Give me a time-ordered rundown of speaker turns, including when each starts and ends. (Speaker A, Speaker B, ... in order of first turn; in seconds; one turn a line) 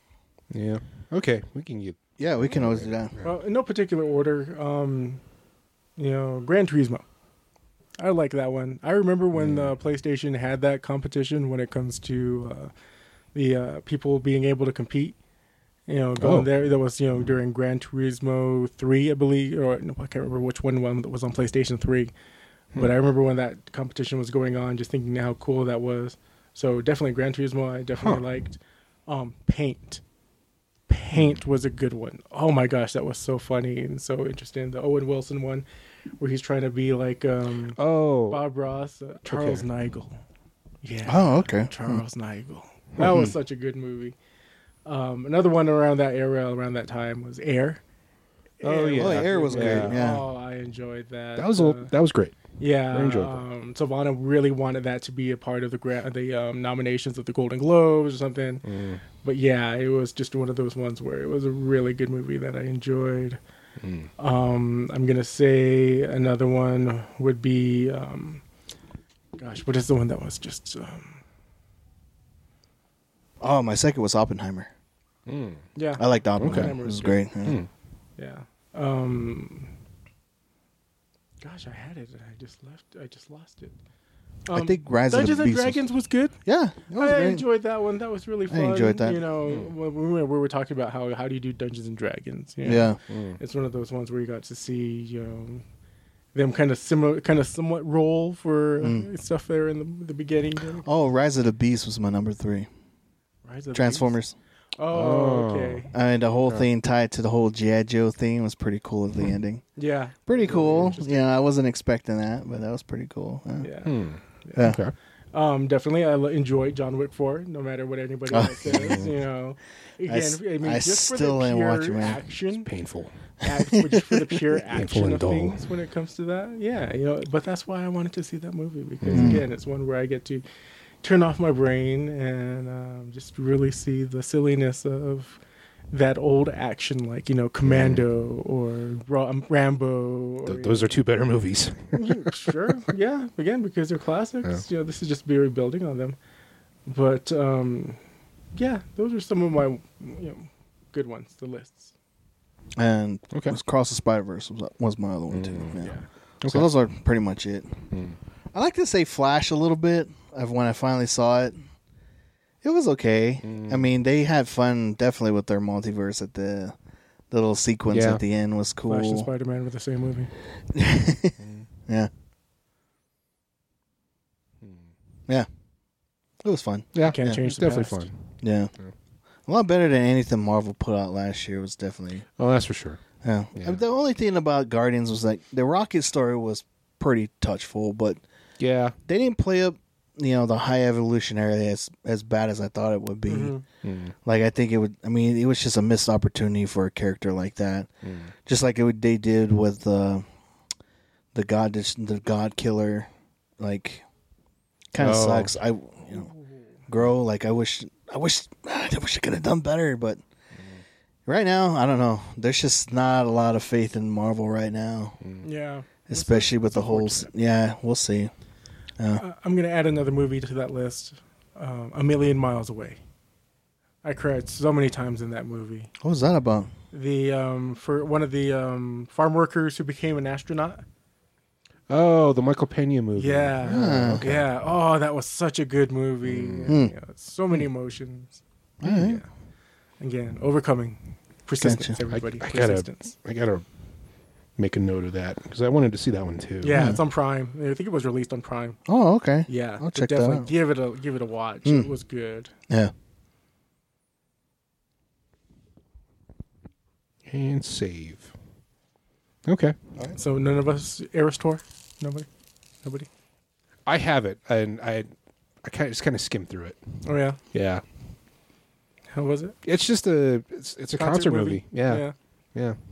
Speaker A: 0.5-3.3
Speaker B: 2.2-3.1
Speaker C: 3.2-5.2
Speaker C: 6.0-7.0
Speaker C: 8.0-12.7
Speaker A: 9.4-9.8
Speaker C: 13.3-15.2
Speaker C: 15.9-22.1
Speaker A: 16.2-16.5
Speaker C: 22.8-30.0
Speaker A: 28.0-28.2
Speaker C: 30.9-35.7
Speaker C: 36.2-37.8
Speaker A: 37.8-38.4
Speaker C: 38.3-40.2
Speaker A: 39.3-39.6
Speaker C: 40.8-44.1
Speaker B: 41.1-42.0
Speaker B: 43.0-43.3
Speaker C: 44.9-47.8
Speaker C: 48.6-51.9
Speaker A: 48.6-50.0
Speaker B: 49.0-50.2
Speaker A: 51.4-53.4
Speaker C: 52.6-58.6
Speaker A: 58.6-59.0
Speaker C: 59.2-63.4
Speaker A: 63.8-64.1
Speaker C: 64.2-68.4
Speaker C: 69.4-71.2
Speaker B: 73.4-74.7
Speaker A: 75.3-75.6
Speaker C: 75.8-77.2
Speaker B: 76.0-77.6
Speaker A: 76.4-76.8
Speaker C: 78.2-79.7
Speaker C: 81.4-83.8
Speaker C: 84.5-86.4
Speaker B: 84.5-85.8
Speaker B: 86.5-87.4
Speaker C: 87.0-95.6
Speaker B: 88.5-89.2
Speaker B: 92.6-93.0
Speaker A: 93.1-93.4
Speaker C: 96.3-100.9
Speaker B: 98.8-99.1
Speaker B: 100.8-102.7
Speaker C: 103.5-104.2
Speaker B: 103.7-104.3
Speaker C: 104.8-105.9
Speaker A: 104.9-105.9
Speaker B: 105.9-109.7
Speaker C: 109.8-111.2
Speaker B: 110.3-113.7
Speaker C: 113.6-114.7
Speaker A: 113.8-114.9
Speaker C: 115.3-122.7
Speaker B: 118.3-119.0
Speaker A: 118.7-119.1
Speaker B: 120.1-122.2
Speaker A: 122.6-123.1
Speaker C: 123.4-130.4
Speaker B: 123.7-124.2
Speaker A: 124.7-125.6
Speaker A: 129.0-129.4
Speaker B: 129.1-129.4
Speaker C: 131.0-135.4
Speaker C: 135.9-140.9
Speaker A: 137.7-138.0
Speaker A: 140.5-142.5
Speaker C: 141.9-146.2
Speaker C: 146.9-148.0
Speaker C: 148.6-151.9
Speaker B: 152.8-157.8
Speaker A: 155.3-155.8
Speaker A: 156.4-156.7
Speaker A: 157.9-158.2
Speaker B: 158.5-161.6
Speaker B: 162.6-166.8
Speaker A: 163.4-163.9
Speaker B: 167.3-169.3
Speaker A: 167.9-168.2
Speaker C: 168.9-170.3
Speaker B: 170.7-172.1
Speaker A: 171.4-171.7
Speaker A: 174.6-174.9
Speaker B: 176.4-177.4
Speaker A: 176.9-178.9
Speaker C: 177.0-178.1
Speaker B: 178.4-178.7
Speaker B: 179.5-182.2
Speaker A: 182.4-183.0
Speaker B: 183.2-188.2
Speaker A: 188.6-189.0
Speaker B: 189.1-193.6
Speaker C: 193.3-193.7
Speaker A: 193.8-194.1
Speaker B: 194.2-197.9
Speaker A: 198.0-198.3
Speaker B: 198.5-200.2
Speaker B: 201.3-204.1
Speaker B: 204.9-206.3
Speaker A: 205.0-205.5
Speaker C: 206.1-206.7
Speaker B: 206.9-210.2
Speaker B: 211.3-215.2
Speaker C: 215.4-217.3
Speaker B: 216.1-218.3
Speaker C: 219.2-223.0
Speaker C: 224.0-225.9
Speaker B: 226.0-226.7
Speaker C: 226.9-230.8
Speaker A: 231.9-234.5
Speaker C: 233.2-239.3
Speaker B: 233.7-234.3
Speaker A: 236.2-236.8
Speaker B: 236.7-236.9
Speaker B: 238.8-239.2
Speaker C: 240.0-243.1
Speaker B: 241.6-242.0
Speaker A: 242.1-243.7
Speaker A: 244.6-246.9
Speaker C: 246.6-248.8
Speaker B: 246.7-247.0
Speaker B: 248.9-250.5
Speaker C: 249.5-252.5
Speaker A: 257.3-258.3
Speaker A: 259.5-259.8
Speaker C: 260.2-262.3
Speaker C: 262.8-263.1
Speaker A: 263.9-265.1
Speaker A: 265.6-267.0
Speaker C: 267.1-267.4
Speaker A: 267.5-267.8
Speaker C: 269.1-269.6
Speaker A: 269.6-272.8
Speaker C: 271.0-272.1